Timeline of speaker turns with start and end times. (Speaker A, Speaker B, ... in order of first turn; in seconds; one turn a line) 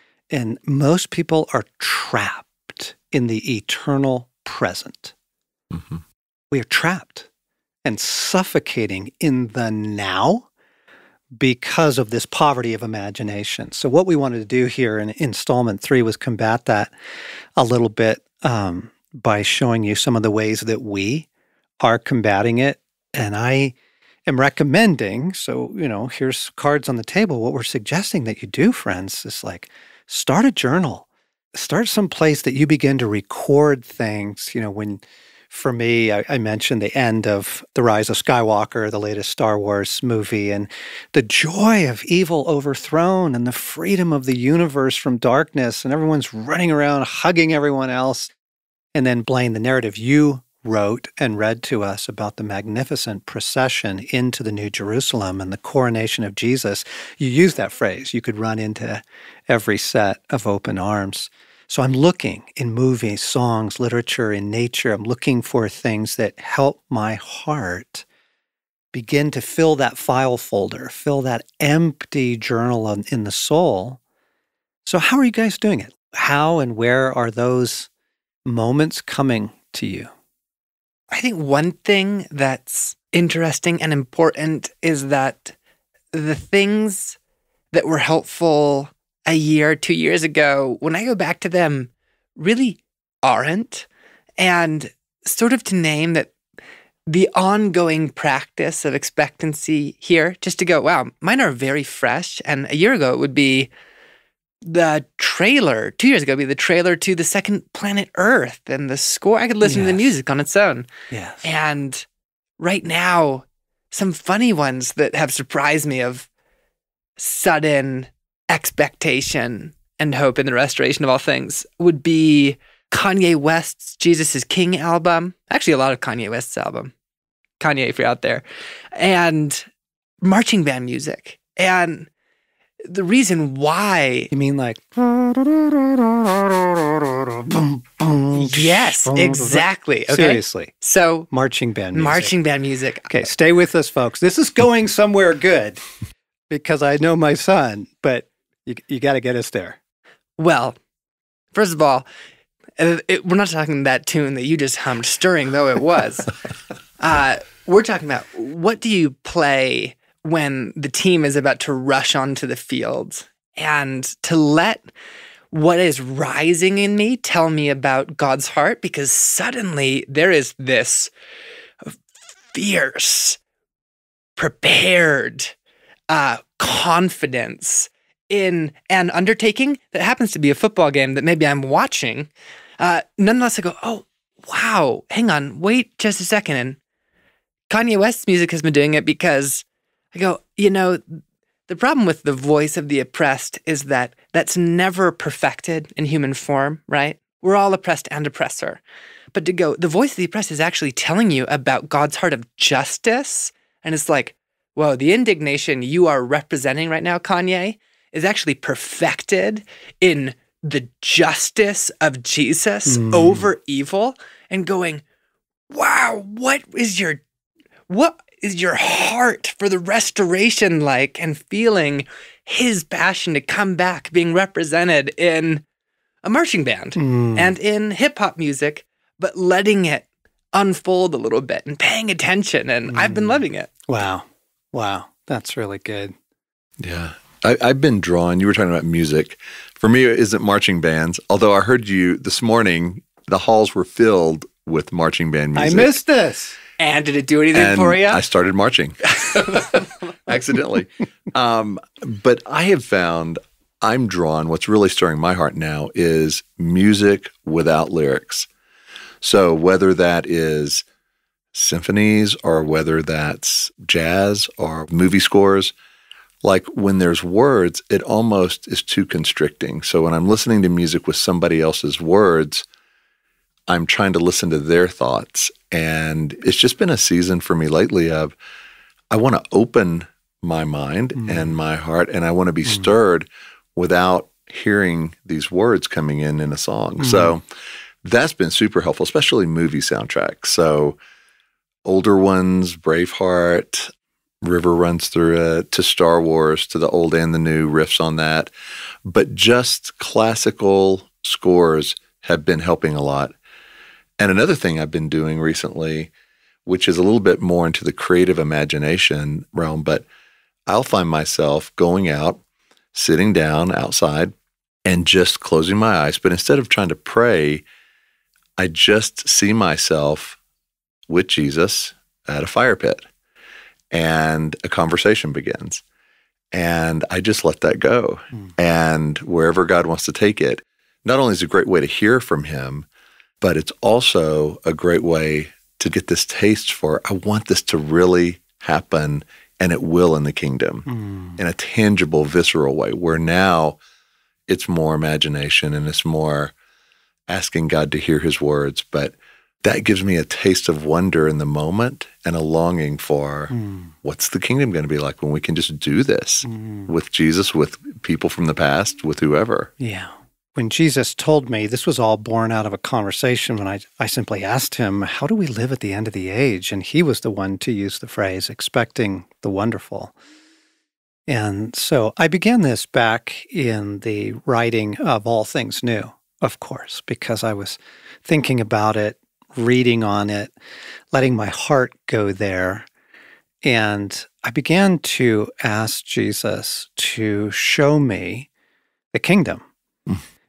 Speaker A: 0.3-5.1
Speaker B: 5.7-6.0
Speaker A: 6.5-7.3
Speaker A: 7.8-10.5
Speaker A: 11.3-16.9
Speaker A: 17.6-21.3
Speaker A: 21.8-23.8
Speaker A: 24.3-48.3
Speaker A: 49.0-68.1
Speaker A: 68.9-74.0
Speaker A: 74.8-77.9
Speaker A: 78.5-80.1
Speaker C: 81.1-85.5
Speaker C: 86.1-87.2
Speaker C: 87.7-93.9
Speaker C: 94.4-96.3
Speaker C: 97.1-103.7
Speaker C: 104.6-110.9
Speaker A: 109.6-110.1
Speaker A: 111.1-111.5
Speaker C: 111.4-112.0
Speaker C: 112.6-116.3
Speaker C: 117.2-126.9
Speaker C: 127.6-129.7
Speaker C: 130.2-132.1
Speaker C: 132.8-134.3
Speaker A: 134.3-140.7
Speaker C: 138.3-141.3
Speaker A: 141.3-142.3
Speaker C: 141.9-143.2
Speaker A: 143.1-145.8
Speaker A: 146.5-149.8
Speaker C: 150.4-150.8
Speaker C: 151.5-152.1
Speaker C: 152.8-156.3
Speaker C: 157.0-164.9
Speaker C: 165.5-171.1
Speaker C: 172.5-173.4
Speaker C: 174.4-175.5
Speaker C: 176.1-186.8
Speaker C: 187.7-198.8
Speaker C: 199.3-215.0
Speaker A: 212.9-213.5
Speaker C: 215.7-217.2
Speaker C: 217.9-225.6
Speaker C: 226.2-233.7
Speaker A: 227.0-227.6
Speaker A: 232.9-236.1
Speaker B: 236.8-246.0
Speaker A: 245.6-246.6
Speaker C: 246.8-248.2
Speaker B: 247.5-249.7
Speaker B: 250.3-258.5
Speaker B: 259.2-260.8
Speaker B: 261.5-265.7
Speaker B: 266.4-272.6
Speaker B: 273.7-278.4
Speaker B: 279.1-287.4
Speaker A: 281.2-281.6
Speaker A: 287.0-287.3
Speaker B: 288.0-291.0
Speaker B: 291.9-293.9
Speaker B: 294.4-298.5
Speaker B: 299.1-303.4
Speaker B: 304.2-306.1
Speaker B: 306.7-310.1
Speaker B: 310.7-312.4
Speaker B: 312.9-314.3
Speaker B: 314.9-317.6
Speaker B: 318.6-320.4
Speaker B: 321.1-323.1
Speaker B: 323.9-325.8
Speaker B: 326.5-332.9
Speaker B: 333.4-343.8
Speaker A: 340.9-341.4
Speaker B: 344.5-346.5
Speaker B: 347.3-359.7
Speaker A: 353.5-353.9
Speaker A: 356.4-356.9
Speaker A: 359.8-370.1
Speaker A: 371.3-380.5
Speaker A: 381.1-382.9
Speaker A: 383.6-388.5
Speaker A: 389.1-389.7